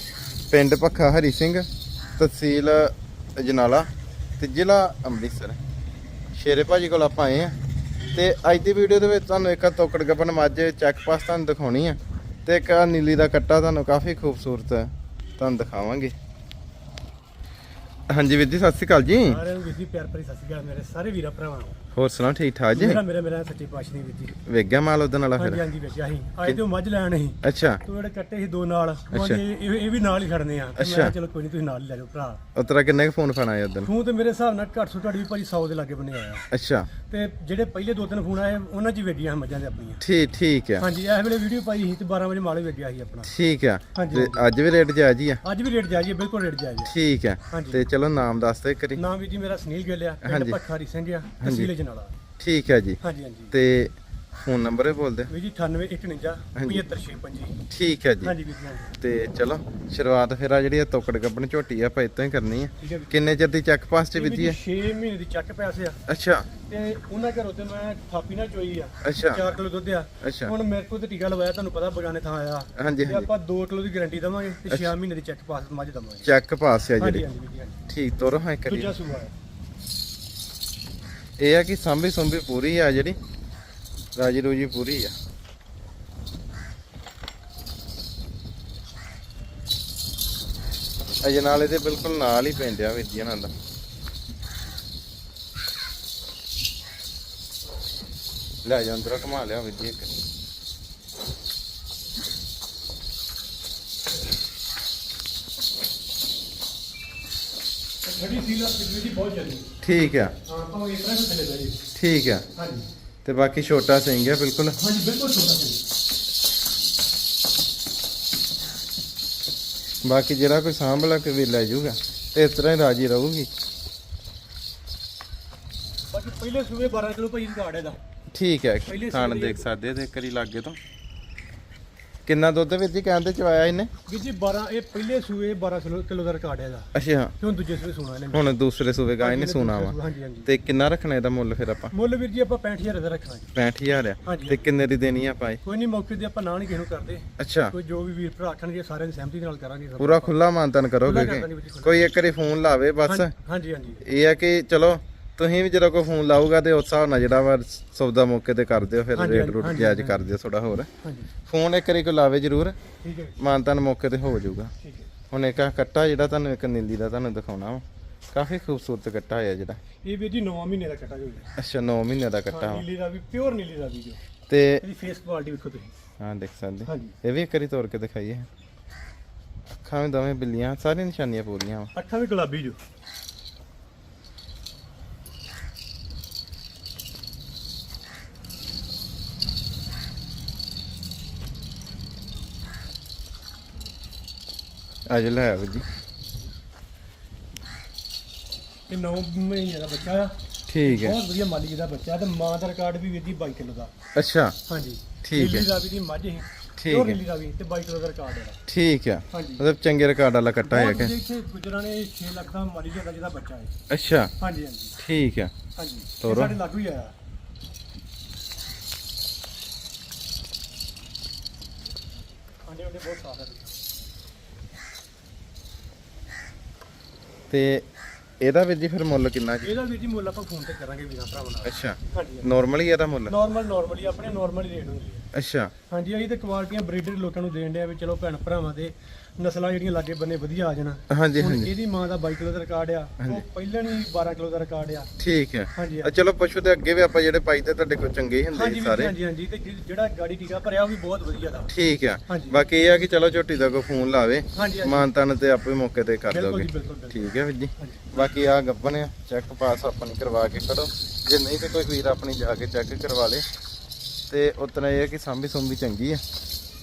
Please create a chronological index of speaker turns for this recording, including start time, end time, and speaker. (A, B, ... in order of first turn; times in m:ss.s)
0:00.5-0:01.6 A
0:02.2-0:03.8 A
0:04.4-0:05.6 A
0:06.3-0:07.5 A
0:08.1-0:16.1 A
0:18.1-0:19.4 A
0:19.2-0:21.8 B
0:22.0-0:23.0 A
0:22.7-0:24.3 B
0:24.4-0:25.6 A
0:25.4-0:32.4 B
0:27.4-0:27.8 A
0:29.1-0:29.4 A
0:30.8-0:31.1 A
0:32.5-0:33.9 A
0:33.8-0:36.5 B
0:36.5-0:36.9 A
0:37.0-0:40.0 B
0:40.0-0:40.9 A
0:40.8-0:43.3 B
0:43.2-0:45.4 A
0:43.9-0:44.4 B
0:45.4-0:46.9 B
0:46.8-0:49.0 A
0:47.5-0:47.8 B
0:48.9-0:52.1 B
0:50.2-0:50.6 A
0:51.4-0:51.7 A
0:52.4-0:53.0 A
0:53.0-0:53.5 B
0:53.5-0:53.9 A
0:54.4-0:55.3 A
0:55.3-0:57.6 B
0:56.6-0:56.8 A
0:57.7-0:58.3 A
0:58.2-0:58.9 B
0:59.0-1:04.6 A
1:02.8-1:03.2 B
1:04.1-1:06.0 B
1:06.1-1:06.5 A
1:06.6-1:16.3 B
1:09.0-1:09.5 A
1:10.2-1:10.5 A
1:12.8-1:13.3 A
1:16.2-1:17.2 A
1:17.0-1:17.8 B
1:17.9-1:18.9 A
1:18.7-1:19.3 B
1:21.4-1:23.2 A
1:24.2-1:25.1 A
1:31.2-1:33.5 A
1:38.6-1:40.1 A
1:48.0-1:49.6 B
1:49.8-1:50.3 A
1:50.4-1:51.8 B
1:51.9-1:52.4 A
1:52.6-1:52.8 B
1:53.2-1:54.8 A
1:54.8-1:55.8 B
2:00.0-2:03.5 A
2:06.1-2:08.0 B
2:08.3-2:10.8 A
2:08.9-2:09.6 B
2:12.2-2:13.9 A
2:14.1-2:18.6 B
2:16.9-2:17.3 A
2:18.3-2:21.9 A
2:19.2-2:20.5 B
2:21.9-2:23.5 B
2:23.5-2:25.6 A
2:24.2-2:24.6 B
2:25.6-2:30.3 B
2:27.4-2:27.7 A
2:30.0-2:33.3 A
2:31.0-2:32.1 B
2:33.1-2:34.0 B
2:34.0-2:40.9 A
2:39.2-2:40.3 B
2:41.0-2:41.3 B
2:41.5-2:42.8 A
2:43.0-2:43.4 B
2:43.4-2:44.7 A
2:44.8-2:45.1 B
2:45.3-2:49.8 A
2:50.0-2:51.5 B
2:51.6-2:52.8 A
2:52.5-2:54.2 B
2:54.5-2:54.8 A
2:54.8-2:55.9 B
2:56.2-2:58.5 A
2:56.8-2:57.2 B
2:59.8-3:01.9 A
3:01.9-3:02.8 B
3:15.1-3:15.8 A
3:18.9-3:23.9 B
3:20.7-3:21.2 A
3:24.1-3:24.6 A
3:24.7-3:28.6 B
3:25.2-3:25.6 A
3:26.8-3:27.2 A
3:28.7-3:31.1 A
3:29.3-3:29.7 B
3:30.6-3:33.7 B
3:33.9-3:34.3 A
3:34.4-3:34.9 B
3:35.0-3:35.5 A
3:35.8-3:37.1 B
3:36.2-3:36.6 A
3:42.7-3:43.8 B
3:47.5-3:47.8 A
3:48.4-3:49.7 A
3:49.6-3:52.5 B
3:51.6-3:53.3 A
3:53.3-3:55.2 B
3:55.3-3:55.7 A
3:55.9-4:05.1 B
4:01.1-4:01.7 A
4:05.2-4:09.1 A
4:05.7-4:06.1 B
4:08.5-4:11.7 B
4:11.7-4:23.4 A
4:12.3-4:12.6 B
4:14.5-4:15.1 B
4:16.3-4:18.1 B
4:24.3-4:26.2 A